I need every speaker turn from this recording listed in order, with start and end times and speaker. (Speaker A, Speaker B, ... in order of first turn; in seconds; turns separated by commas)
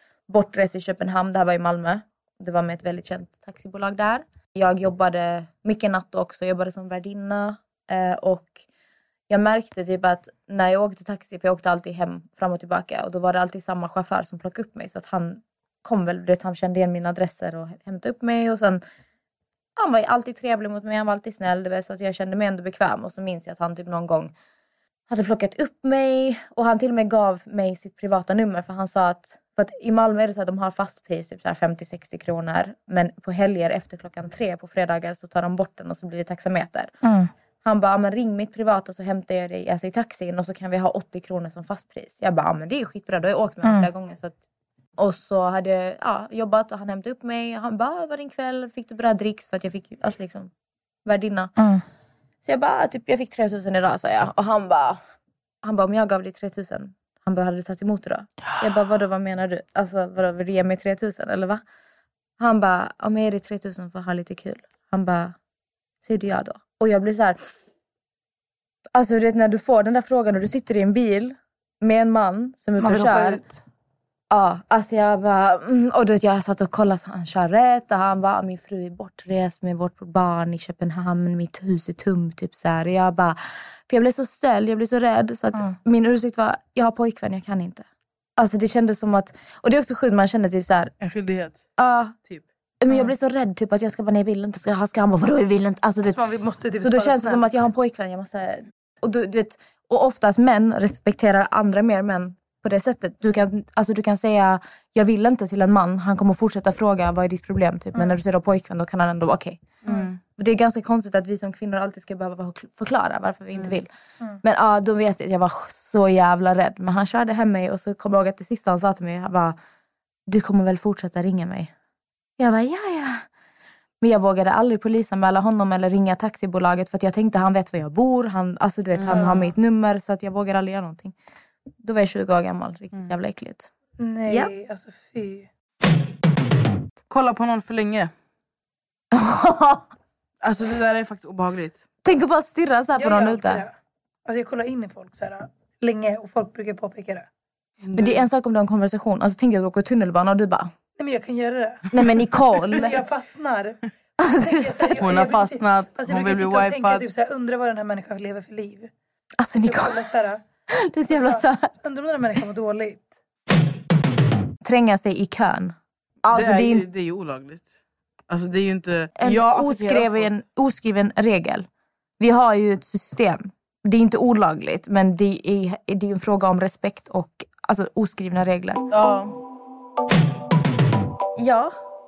Speaker A: 0.3-8.6, Speaker A: 9.3-18.8, Speaker A: 19.8-24.3, Speaker A: 25.1-36.9, Speaker B: 37.0-37.3, Speaker A: 37.6-44.3, Speaker B: 43.6-43.9, Speaker A: 45.0-50.5, Speaker A: 51.0-51.5, Speaker B: 51.6-51.8, Speaker A: 52.4-55.0, Speaker A: 55.6-61.6, Speaker A: 62.4-65.3, Speaker A: 66.0-67.5, Speaker A: 68.9-73.4, Speaker B: 72.8-73.6, Speaker A: 74.3-87.8, Speaker A: 88.4-90.9, Speaker C: 91.0-91.6, Speaker A: 91.8-92.1, Speaker A: 92.8-96.2, Speaker B: 96.1-97.7, Speaker A: 96.8-109.7, Speaker C: 109.8-110.2, Speaker A: 110.3-113.9, Speaker A: 114.4-119.5, Speaker A: 120.3-121.7, Speaker A: 122.4-123.2, Speaker A: 124.0-131.1, Speaker C: 128.9-129.4, Speaker B: 129.1-129.3, Speaker A: 131.8-133.7, Speaker B: 134.0-135.5, Speaker A: 134.3-134.5, Speaker C: 137.1-138.1, Speaker A: 139.1-139.9, Speaker C: 140.4-141.8, Speaker A: 142.0-143.6, Speaker B: 142.9-143.7, Speaker B: 144.2-147.3, Speaker C: 147.8-148.2, Speaker A: 147.9-150.7, Speaker B: 150.9-158.9, Speaker A: 151.9-152.9, Speaker A: 154.2-155.0, Speaker C: 155.0-157.0, Speaker A: 159.4-160.0, Speaker B: 159.6-160.4, Speaker A: 160.7-161.7, Speaker B: 161.1-163.1, Speaker A: 164.6-166.8, Speaker C: 166.3-167.7, Speaker C: 168.3-170.3, Speaker A: 169.2-171.7, Speaker A: 172.2-178.8, Speaker C: 178.9-179.4, Speaker A: 181.3-181.7